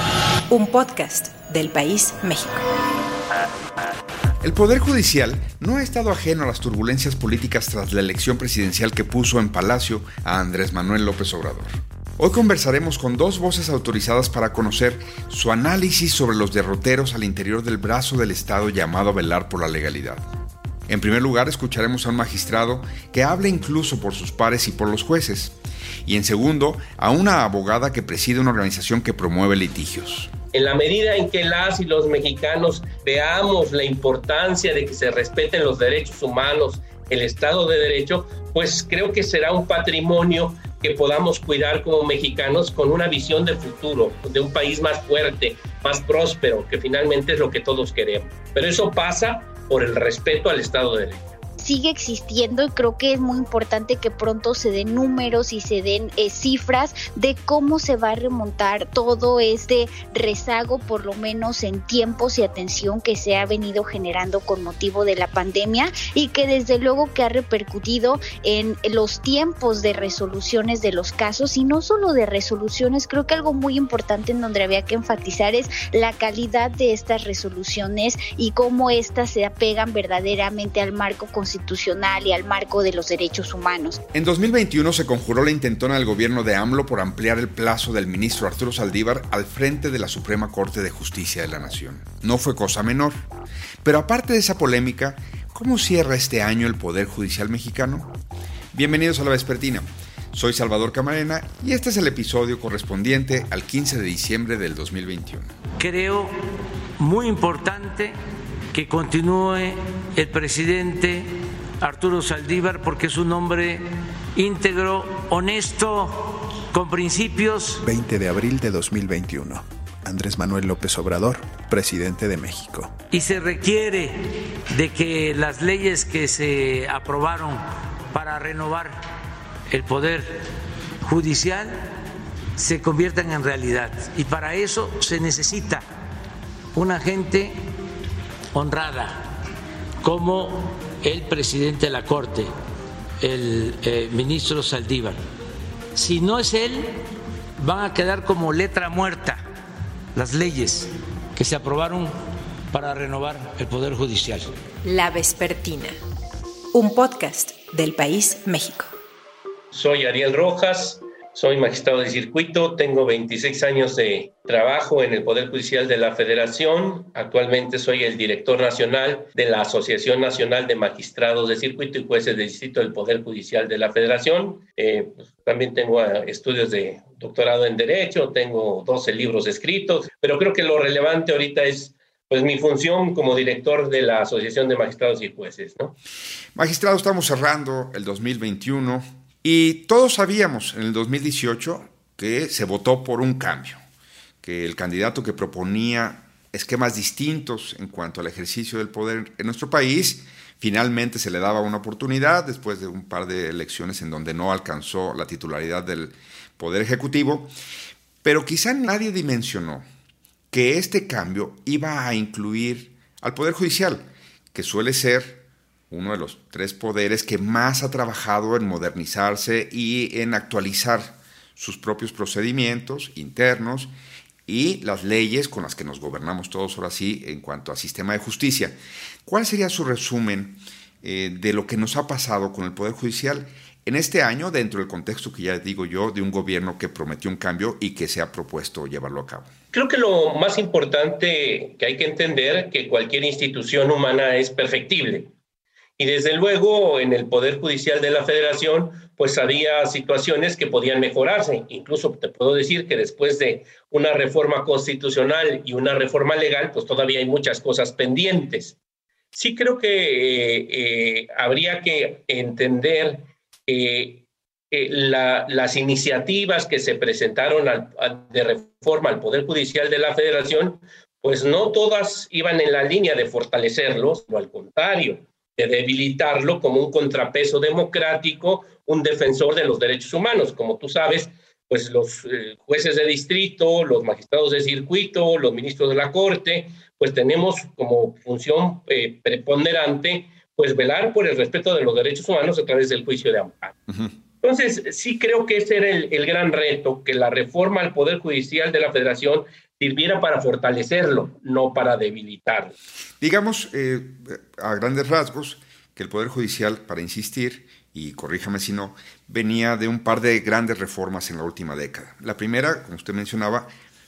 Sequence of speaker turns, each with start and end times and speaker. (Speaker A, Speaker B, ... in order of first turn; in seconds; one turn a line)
Speaker A: 0.5-2.6
Speaker B: 4.4-20.2
Speaker B: 20.9-25.5
Speaker B: 26.1-30.3
Speaker C: 30.5-51.4
Speaker D: 51.6-84.0
Speaker B: 84.1-93.2
Speaker B: 93.8-98.1
Speaker B: 98.7-105.5
Speaker E: 105.8-106.3
Speaker E: 107.0-108.1
Speaker E: 108.7-113.8
Speaker E: 114.3-117.8
Speaker F: 117.8-122.9
Speaker E: 123.1-129.0
Speaker E: 129.7-130.4
Speaker E: 131.0-131.8
Speaker E: 132.6-135.8
Speaker E: 136.7-137.5
Speaker E: 138.5-139.3
Speaker E: 140.0-142.5
Speaker E: 143.2-145.2
Speaker E: 145.9-147.0
Speaker E: 147.6-149.4
Speaker E: 150.1-152.1
Speaker E: 152.7-154.5
Speaker A: 154.8-156.0
Speaker A: 156.7-158.9
Speaker C: 159.7-185.9
Speaker B: 186.6-193.8
Speaker B: 194.4-207.5
Speaker B: 208.2-209.8
Speaker B: 210.5-223.9
Speaker B: 224.5-239.5
Speaker C: 239.7-245.3
Speaker C: 246.0-258.8
Speaker C: 259.3-293.7
Speaker C: 294.4-302.7
Speaker B: 303.2-313.7